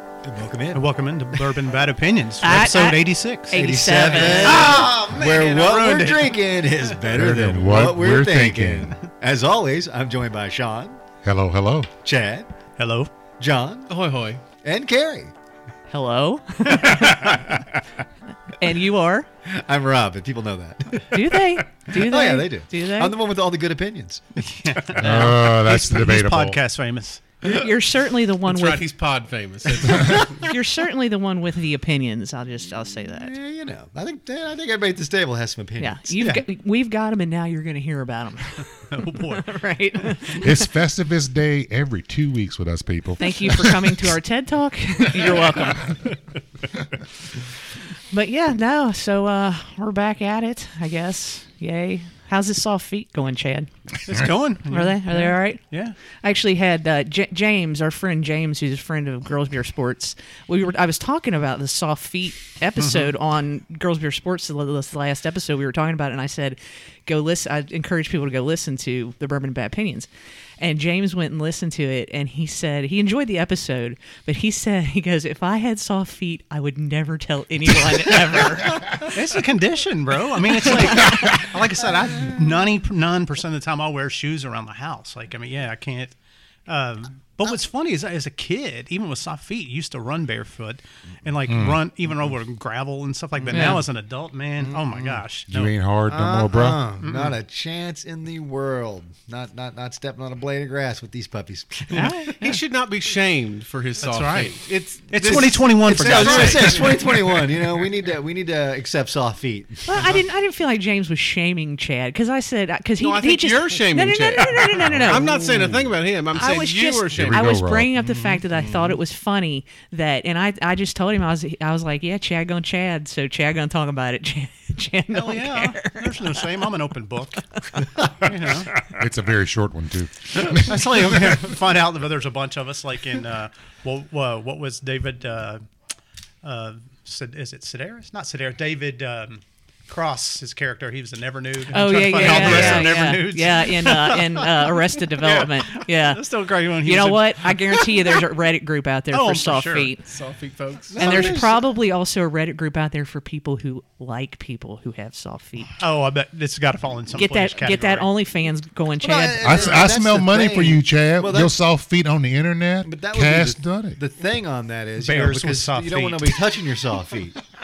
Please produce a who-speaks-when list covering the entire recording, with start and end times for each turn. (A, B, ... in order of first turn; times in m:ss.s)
0:00.2-0:00.9 A
0:00.7-0:03.6 B
0:02.4-0:04.8 C
0:03.5-0:11.0 A
0:04.4-0:05.8 D
0:05.6-0:06.4 B
0:07.1-0:09.0 E
0:11.2-0:11.9 E
0:12.0-0:12.5 A
0:12.8-0:13.1 B
0:13.4-0:13.9 A
0:13.9-0:14.4 D
0:14.6-0:15.3 A
0:15.9-0:17.6 C
0:16.7-0:17.7 A
0:18.5-0:19.3 C
0:19.4-0:24.5 A
0:21.1-0:23.1 C
0:24.4-0:27.2 B
0:25.0-0:26.6 E
0:27.4-0:28.8 C
0:28.4-0:30.3 D
0:29.8-0:33.3 C
0:33.2-0:36.2 A
0:35.8-0:40.7 C
0:38.9-0:39.5 B
0:40.0-0:40.3 B
0:40.4-0:44.0 E
0:43.2-0:45.9 C
0:48.1-0:53.7 C
0:54.0-0:56.0 B
0:54.7-0:55.6 C
0:56.2-1:10.1 C
1:02.8-1:03.1 B
1:10.6-1:19.0 C
1:19.0-1:26.1 B
1:26.7-1:35.7 B
1:31.5-1:31.8 E
1:33.5-1:33.8 A
1:33.5-1:33.8 C
1:34.6-1:35.2 A
1:35.5-1:36.8 E
1:36.1-1:42.4 A
1:37.0-1:37.4 B
1:41.9-1:42.6 C
1:42.4-1:47.1 D
1:44.0-1:44.6 B
1:45.1-1:47.5 B
1:45.2-1:50.1 A
1:49.8-1:55.4 C
1:53.0-1:57.5 D
1:54.8-1:55.9 E
1:56.4-2:06.5 C
1:57.1-1:57.9 E
1:58.0-1:58.4 B
1:58.5-1:59.0 A
2:05.1-2:07.4 B
2:08.2-2:08.8 B
2:08.8-2:11.3 E
2:10.5-2:15.6 B
2:16.4-2:28.2 B
2:21.7-2:26.3 C
2:22.3-2:23.0 E
2:26.8-2:30.0 C
2:29.1-2:30.0 B
2:30.0-2:31.3 D
2:30.9-2:31.7 A
2:31.0-2:35.7 C
2:35.8-2:38.1 B
2:37.1-2:39.8 C
2:39.0-2:41.5 A
2:39.4-2:44.0 E
2:42.8-2:47.4 A
2:45.0-2:46.4 B